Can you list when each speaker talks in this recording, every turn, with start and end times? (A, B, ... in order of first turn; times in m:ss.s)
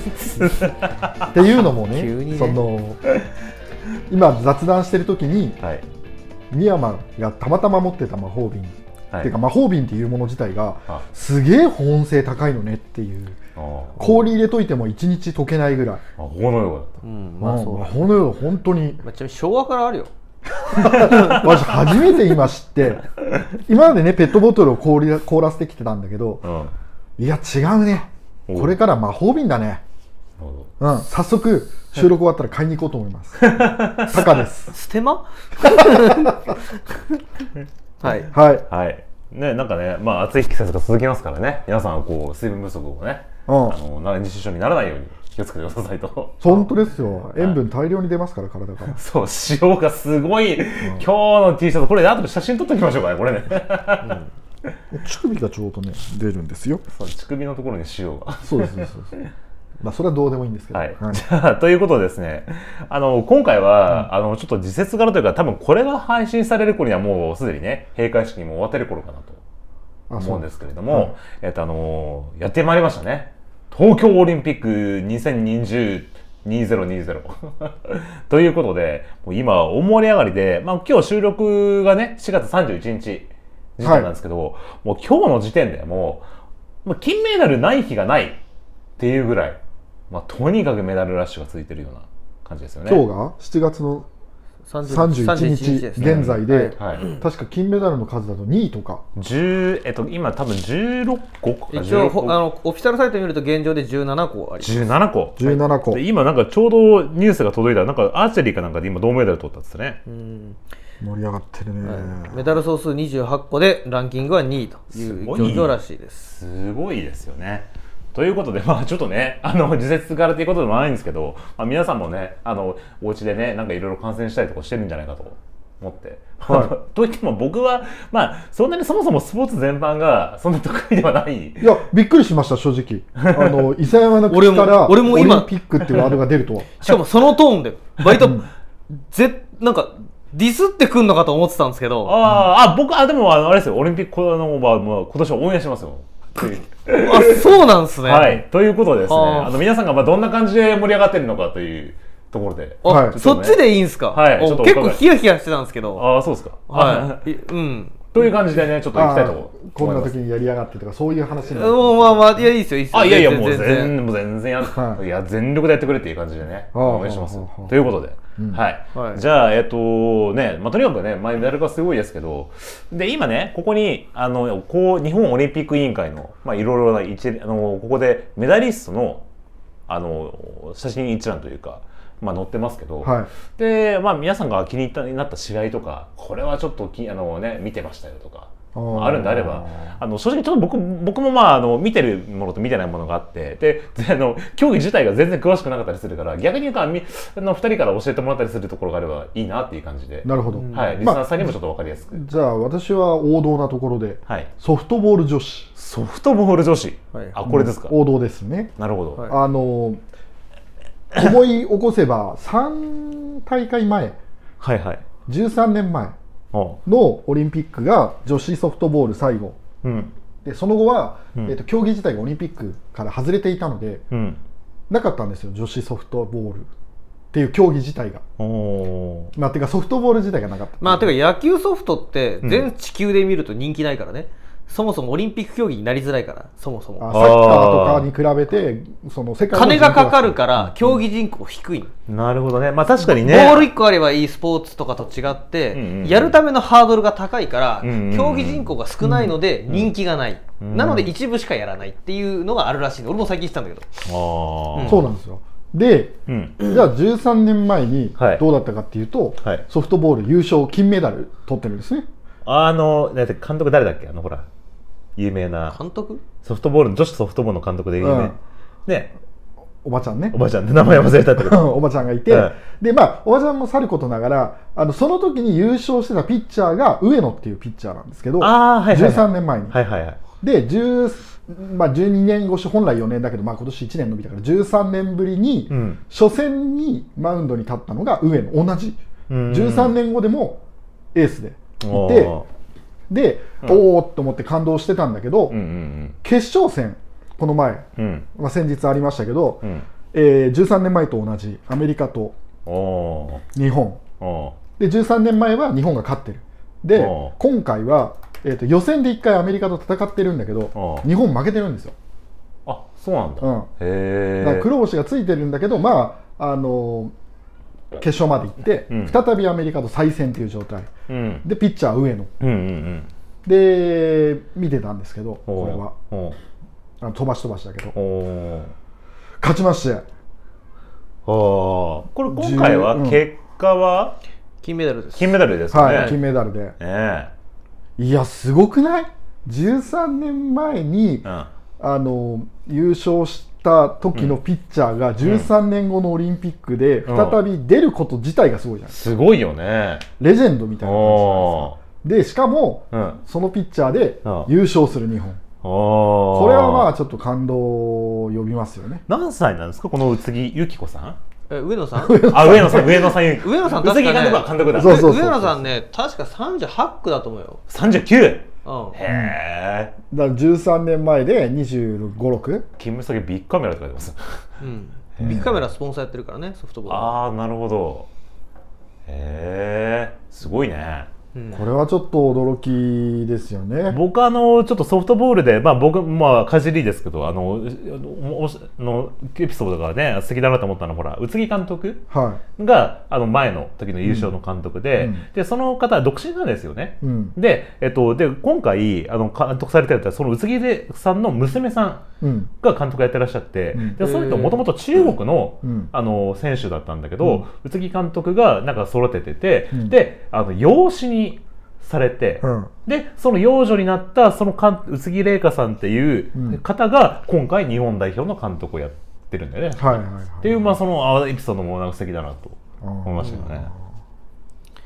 0:00.4-0:01.3 A
0:01.3-0:03.0 B
0:01.8-0:02.6 C
0:04.1-0:05.6 B
0:06.5-0:13.4 B
0:13.6-0:14.0 A
0:14.0-0:16.0 B
0:16.2-0:17.0 A
0:17.0-0:18.0 C
0:17.4-0:19.0 B
0:19.0-0:20.1 C
0:20.7-0:23.1 B
0:20.8-0:21.4 C
0:20.8-0:21.6 A
0:23.6-0:26.5 B
0:26.4-0:26.7 A
0:27.2-0:29.8 B
0:28.5-0:28.7 A
0:30.4-0:30.7 A
0:30.8-0:34.7 B
0:33.4-0:34.4 A
0:34.7-0:36.8 C
0:35.6-0:36.3 B
0:38.0-0:38.3 C
0:38.3-0:38.6 B
0:38.7-0:46.6 A
0:43.5-0:43.8 B
0:46.4-0:49.0 B
0:48.9-0:54.7 A
0:54.9-0:56.8 B
0:56.9-0:58.9 A
0:58.4-0:59.2 B
0:59.8-1:01.2 B
1:00.7-1:09.4 A
1:10.1-1:11.1 B
1:10.2-1:26.2 A
1:23.8-1:24.1 B
1:26.8-1:28.4 A
1:29.0-1:29.6 A
1:30.1-1:33.0 A
1:32.8-1:34.1 B
1:34.6-1:37.2 C
1:34.8-1:39.0 B
1:36.0-1:37.1 A
1:39.2-1:42.4 A
1:41.7-1:44.9 C
1:44.6-1:50.0 A
1:45.4-1:46.0 B
1:50.0-1:50.6 C
1:51.0-1:52.4 B
1:51.8-1:56.4 C
1:54.9-1:55.7 A
1:56.3-2:11.8 A
2:06.4-2:06.7 B
2:11.6-2:16.9 B
2:13.2-2:13.7 A
2:14.3-2:15.5 C
2:16.8-2:22.1 C
2:18.1-2:18.4 B
2:22.0-2:35.0 A
2:26.9-2:28.4 C
2:29.0-2:29.5 C
2:32.8-2:36.0 C
2:32.8-2:33.2 B
2:35.9-2:37.2 A
2:36.7-2:38.0 C
2:38.1-2:40.1 A
2:38.9-2:42.2 B
2:41.5-2:43.9 C
2:42.9-2:59.2 A
2:44.7-2:45.0 B
2:46.7-2:47.7 B
2:48.9-2:49.2 C
2:59.9-3:22.2 A
3:03.0-3:03.3 B
3:08.7-3:09.9 B
3:20.2-3:21.6 B
3:20.5-3:21.1 C
3:22.1-3:25.7 B
3:25.8-3:27.9 A
3:27.4-3:28.7 B
3:28.8-3:29.3 A
3:29.3-3:30.0 B
3:31.1-3:34.2 B
3:34.6-3:35.0 A
3:35.3-3:36.2 B
3:36.5-3:36.8 A
3:36.8-3:39.6 B
3:39.8-3:40.1 A
3:40.4-3:44.0 B
3:44.1-3:44.4 A
3:44.9-3:46.7 B
3:47.3-3:48.2 B
3:48.4-3:49.3 A
3:49.3-3:51.1 B
3:50.8-3:57.1 C
3:52.4-3:52.7 A
3:57.0-4:00.8 B
3:57.1-3:58.1 A
3:59.5-4:01.9 C
4:02.1-4:03.7 A
4:03.0-4:13.9 C
4:05.7-4:06.4 A
4:07.8-4:08.7 A
4:09.0-4:09.3 B
4:10.6-4:11.1 A
4:14.0-4:15.0 A
4:14.7-4:15.0 C
4:14.8-4:22.1 B
4:16.3-4:16.6 A
4:18.2-4:18.4 A
4:22.4-4:24.4 A
4:25.2-4:25.8 A
4:25.7-4:26.2 C
4:26.4-4:28.3 A
4:28.0-4:28.3 B
4:28.8-4:29.1 A
4:29.8-4:39.8 B
4:30.3-4:31.7 A
4:32.3-4:32.5 A
4:38.4-4:40.2 A
4:40.4-4:50.6 B
4:45.7-4:46.0 A
4:49.3-4:50.0 A
4:51.1-4:52.3 B
4:51.8-4:52.4 A
4:53.1-4:55.6 B
4:55.5-4:56.2 A
4:56.2-5:02.3 B
4:58.0-4:58.2 A
5:02.6-5:03.4 A
5:03.5-5:04.0 B
5:04.2-5:04.6 A
5:04.8-5:11.9 B
5:06.9-5:07.3 A
5:10.7-5:11.0 A
5:12.6-5:14.7 A
5:13.4-5:13.7 B
5:14.4-5:17.1 B
5:18.0-5:20.9 B
5:18.9-5:19.2 A
5:21.1-5:21.4 A
5:21.4-5:22.3 B
5:22.4-5:23.1 A
5:23.4-5:25.9 B
5:25.5-5:26.4 A
5:27.0-5:27.9 B
5:27.9-5:28.7 A
5:29.4-5:30.0 B
5:31.2-5:34.2 A
5:32.3-5:33.2 B
5:34.6-5:36.2 C
5:35.2-5:36.2 A
5:35.7-5:36.7 B
5:36.8-5:37.3 A
5:38.0-5:41.3 B
5:41.8-5:49.0 B
5:45.2-5:45.5 A
5:47.0-5:47.4 A
5:48.9-5:50.0 A
5:50.2-5:55.4 B
5:50.8-5:51.8 A
5:52.9-5:53.2 A
5:55.6-5:56.9 A
5:56.3-5:59.0 B
5:59.1-6:01.2 A
6:01.5-6:02.4 C
6:02.0-6:03.2 B
6:02.3-6:05.1 A
6:03.3-6:07.6 C
6:04.7-6:05.7 B
6:07.7-6:09.9 A
6:08.6-6:09.0 C
6:09.1-6:09.4 B
6:10.1-6:12.7 B
6:12.8-6:14.5 A
6:14.6-6:17.2 C
6:15.2-6:15.6 A
6:15.2-6:15.5 B
6:16.9-6:18.1 A
6:19.1-6:21.1 A
6:21.3-6:21.6 C
6:21.5-6:24.0 B
6:23.9-6:32.0 A
6:32.1-6:32.4 B
6:32.6-6:42.0 A
6:34.0-6:34.3 B
6:35.0-6:35.2 B
6:37.0-6:37.3 B
6:42.2-6:42.5 B
6:42.6-7:03.7 A
6:43.7-6:44.0 B
6:44.0-6:44.6 C
6:45.6-6:45.9 B
6:52.4-6:52.7 B
6:56.3-6:56.6 B
6:59.8-7:00.7 B
7:02.8-7:03.7 B
7:03.2-7:03.5 C